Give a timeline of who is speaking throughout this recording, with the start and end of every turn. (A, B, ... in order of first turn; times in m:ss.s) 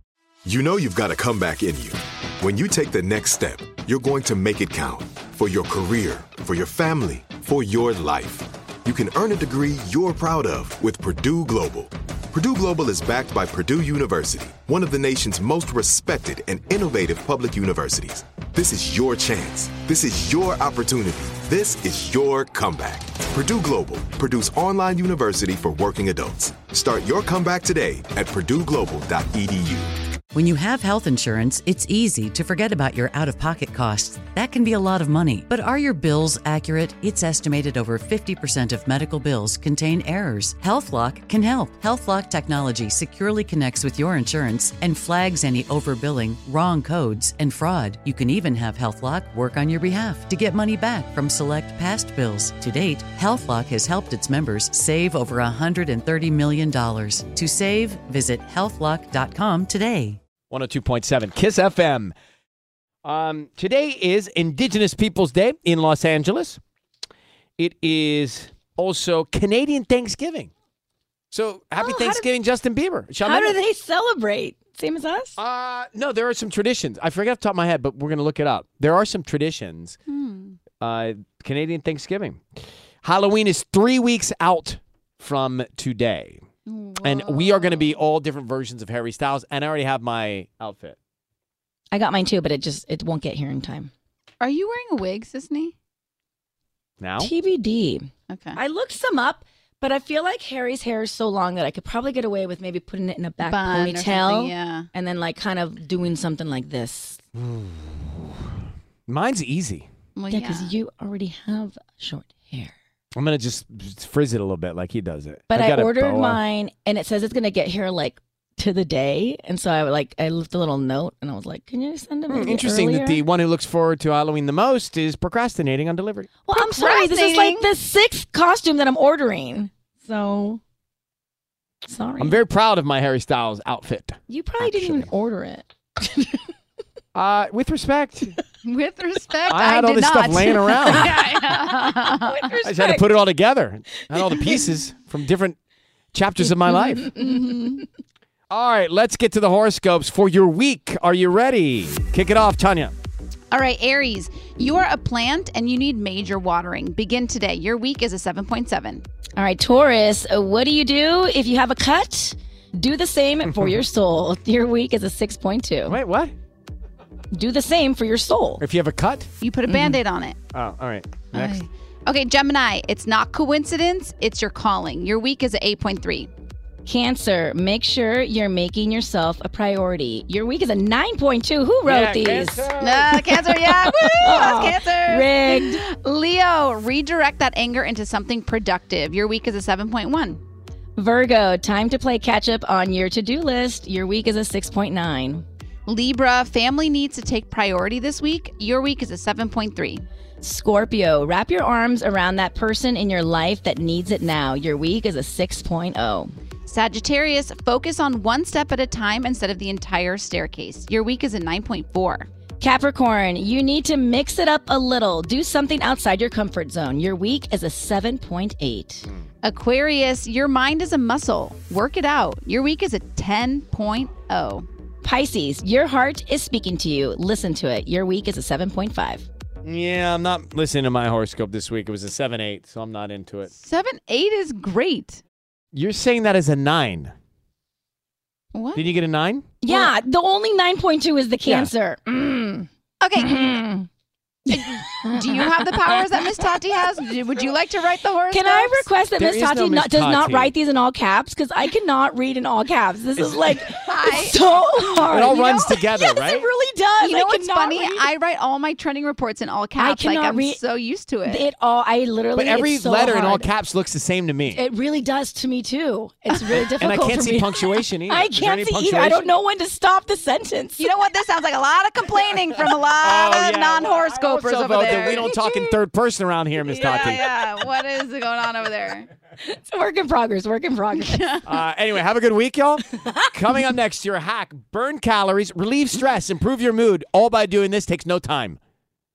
0:00.4-0:29.9 A
0:30.3-1:00.2 B
1:00.5-1:02.1 C
1:03.0-1:06.6 C
1:07.6-1:10.5 C
1:11.3-1:13.6 C
1:11.8-1:12.3 D
1:13.2-1:15.4 D
1:15.4-1:20.0 C
1:20.1-1:20.6 E
1:20.8-1:22.4 C
1:23.0-1:26.4 C
1:26.7-1:28.0 E
1:27.0-1:31.0 C
1:31.9-1:33.9 D
1:34.4-1:35.7 E
1:37.0-1:37.3 C
1:37.2-1:47.2 D
1:38.3-1:38.6 E
1:43.4-1:44.9 E
1:47.5-1:48.3 C
1:49.1-1:49.9 C
1:50.2-1:50.7 E
1:50.3-1:52.7 D
1:53.2-1:56.4 C
1:55.5-2:03.2 D
2:02.3-2:06.3 C
2:06.4-2:10.6 D
2:06.5-2:07.6 E
2:11.8-2:12.4 D
2:12.2-2:15.1 C
2:14.3-2:16.4 D
2:17.1-2:18.4 C
2:18.6-2:22.2 E
2:19.5-2:21.1 C
2:20.9-2:23.1 D
2:22.6-2:25.6 C
2:24.2-2:24.5 D
2:26.1-2:27.2 C
2:27.2-2:27.8 E
2:28.5-2:33.0 C
2:33.5-2:39.0 E
2:39.4-2:46.0 D
2:45.8-2:46.3 C
2:47.3-2:48.6 D
2:48.6-2:49.3 C
2:49.4-2:50.4 E
2:49.7-2:50.0 D
2:50.5-2:51.6 C
2:51.3-2:56.3 E
2:56.8-3:02.7 D
3:01.8-3:03.3 C
3:02.8-3:10.4 E
3:04.0-3:05.8 D
3:11.0-3:15.4 D
3:15.8-3:20.0 E
3:20.4-3:26.3 D
3:26.6-3:32.3 E
3:32.6-3:39.1 D
3:39.4-3:44.6 E
3:45.0-3:49.3 D
3:49.6-3:53.5 C
3:53.5-3:55.2 E
3:55.7-3:57.1 C
3:58.5-3:58.8 E
3:58.8-3:59.5 C
3:59.6-4:02.7 D
4:03.0-4:03.5 E
4:03.2-4:03.9 D
4:04.5-4:06.0 D
4:04.5-4:08.9 E
4:08.3-4:18.1 D
4:09.2-4:10.5 C
4:13.2-4:13.5 C
4:13.7-4:14.8 E
4:15.0-4:16.5 C
4:17.0-4:21.4 E
4:19.8-4:20.6 D
4:21.2-4:23.5 D
4:22.4-4:24.6 C
4:24.5-4:30.9 D
4:26.4-4:29.2 C
4:30.8-4:35.7 E
4:32.9-4:37.2 C
4:36.6-4:39.1 E
4:39.4-4:41.4 D
4:40.9-4:41.5 E
4:41.4-4:48.6 C